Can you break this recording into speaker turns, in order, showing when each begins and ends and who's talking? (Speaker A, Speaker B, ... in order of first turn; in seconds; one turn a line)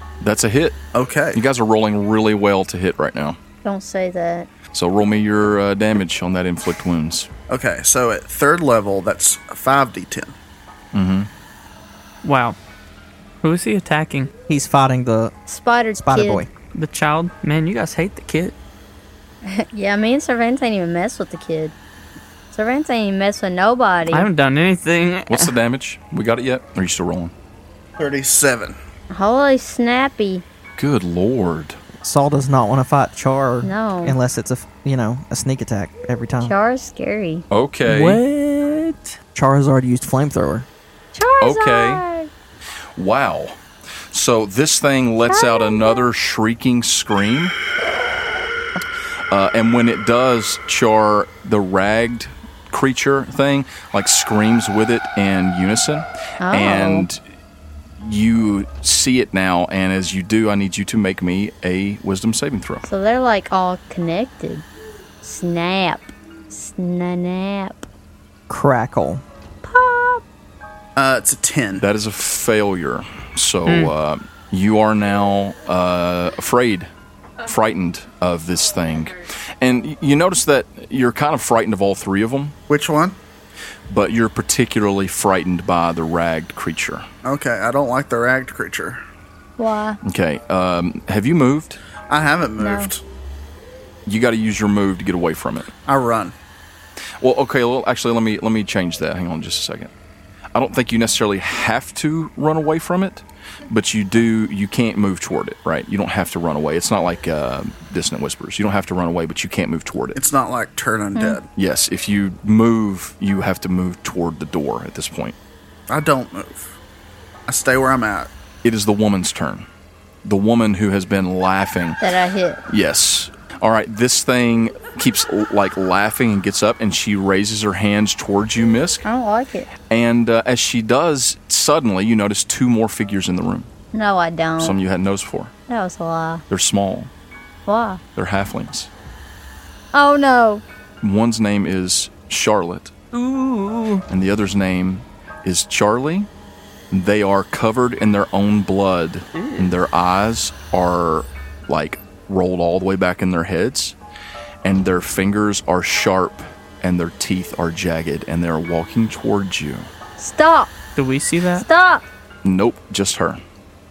Speaker A: 0.2-0.8
Speaker B: 0.9-1.4
Speaker A: 1.3-3.4
Speaker C: 3.6-4.5
Speaker A: 4.7-7.3
Speaker B: 7.5-10.3
Speaker A: 10.9-11.3
Speaker D: 12.2-12.6
Speaker D: 13.4-14.3
Speaker E: 14.5-15.3
Speaker C: 15.5-16.5
Speaker E: 16.0-16.5
Speaker D: 16.7-18.6
Speaker C: 19.4-21.8
Speaker C: 22.5-24.3
Speaker D: 24.1-25.5
Speaker A: 25.3-27.3
Speaker B: 28.0-28.8
Speaker C: 29.1-30.4
Speaker A: 30.8-31.8
Speaker E: 32.0-36.5
Speaker C: 33.6-34.2
Speaker C: 36.4-37.4
Speaker A: 37.5-38.2
Speaker E: 37.9-40.7
Speaker C: 41.1-42.3
Speaker A: 41.4-42.0
Speaker A: 43.0-43.6
Speaker A: 44.1-47.5
Speaker C: 45.3-46.1
Speaker A: 49.3-57.2
Speaker C: 56.4-57.1
Speaker A: 58.0-62.9
Speaker C: 62.8-64.7
Speaker C: 65.2-67.9
Speaker E: 68.5-69.2
Speaker C: 69.6-70.2
Speaker B: 71.0-71.9
Speaker A: 71.8-76.9
Speaker D: 73.7-73.9
Speaker A: 77.5-82.6
Speaker B: 82.7-83.2
Speaker A: 83.9-87.0
Speaker B: 87.2-89.0
Speaker C: 89.6-90.0
Speaker A: 90.0-91.8
Speaker B: 92.1-93.0
Speaker C: 92.6-92.9
Speaker A: 94.1-95.7
Speaker B: 95.8-96.3
Speaker A: 97.2-99.9
Speaker A: 100.5-110.2
Speaker B: 110.2-111.5
Speaker C: 111.2-111.4
Speaker A: 111.6-115.3
Speaker B: 115.9-116.7
Speaker B: 117.5-118.3
Speaker A: 118.6-119.7
Speaker A: 120.2-122.0
Speaker C: 122.0-122.6
Speaker A: 122.7-129.0
Speaker C: 129.0-129.7
Speaker A: 129.9-133.7
Speaker C: 133.9-134.8
Speaker A: 134.6-135.5
Speaker C: 135.7-136.4
Speaker A: 136.5-137.1
Speaker C: 137.7-138.0
Speaker A: 138.2-138.9
Speaker C: 139.9-140.6
Speaker A: 141.0-142.9
Speaker D: 143.1-144.1
Speaker A: 144.1-146.3
Speaker A: 146.9-154.0
Speaker D: 149.3-149.7
Speaker A: 154.6-159.9
Speaker C: 160.2-160.7
Speaker D: 161.0-161.7
Speaker C: 161.6-162.1
Speaker A: 162.4-163.4